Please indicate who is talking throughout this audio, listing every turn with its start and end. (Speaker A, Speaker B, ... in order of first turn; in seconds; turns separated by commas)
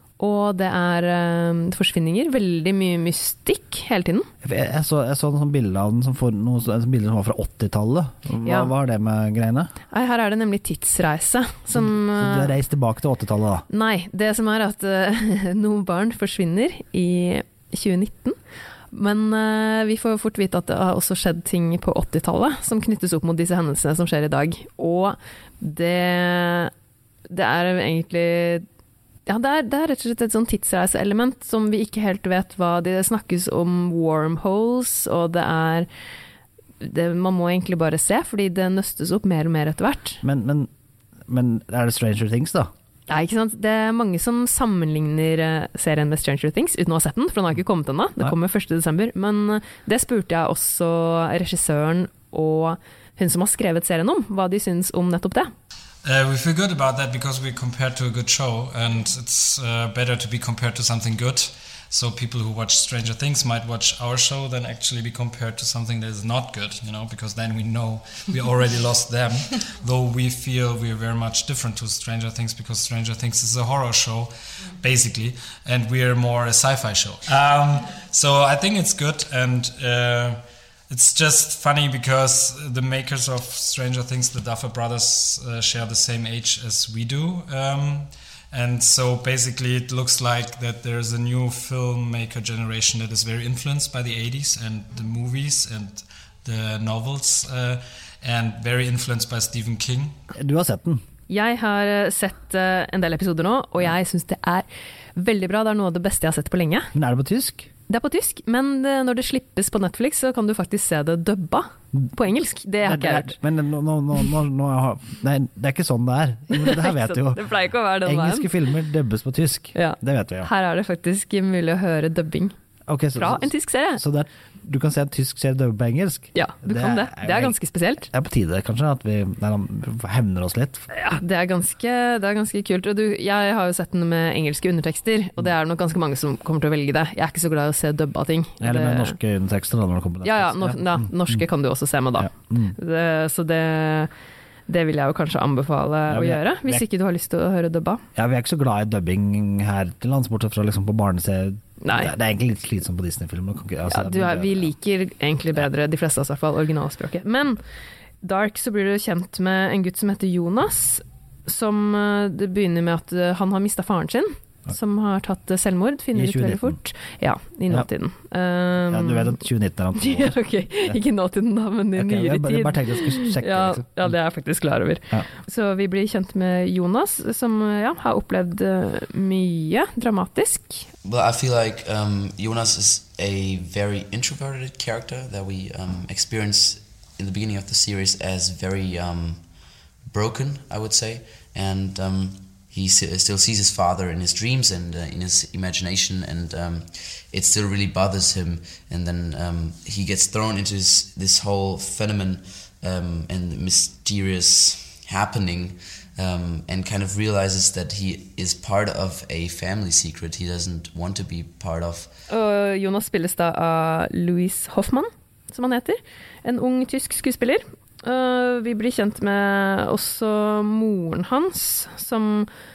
Speaker A: 0.2-4.3, Speaker B: 4.4-9.7, Speaker A: 8.4-8.7, Speaker A: 9.9-12.5, Speaker B: 11.7-13.7, Speaker A: 13.7-18.4, Speaker A: 18.9-26.7, Speaker A: 27.3-28.6, Speaker A: 29.2-35.9, Speaker A: 36.8-40.2, Speaker B: 40.2-40.7, Speaker B: 41.3-42.7, Speaker A: 43.1-55.5, Speaker C: 56.0-100.1, Speaker B: 100.3-101.0, Speaker A: 101.3-106.9, Speaker B: 106.9-107.7, Speaker A: 107.9-113.4, Speaker B: 112.8-117.4, Speaker A: 116.5-118.5, Speaker B: 118.0-120.5, Speaker A: 119.7-122.5, Speaker B: 122.9-127.5, Speaker A: 123.2-124.0, Speaker A: 126.3-128.1, Speaker B: 128.1-130.9, Speaker A: 130.9-139.2, Speaker B: 138.6-141.4, Speaker A: 140.2-144.1, Speaker B: 142.2-142.8, Speaker A: 144.7-148.0, Speaker B: 146.1-146.8, Speaker B: 148.1-154.7, Speaker A: 151.8-152.1, Speaker A: 153.9-157.6, Speaker A: 158.2-169.4, Speaker B: 166.1-166.8, Speaker B: 168.9-171.0, Speaker A: 169.9-180.9, Speaker B: 171.9-174.1, Speaker D: 181.0-189.5, Speaker D: 190.0-212.1, Speaker A: 212.3-222.5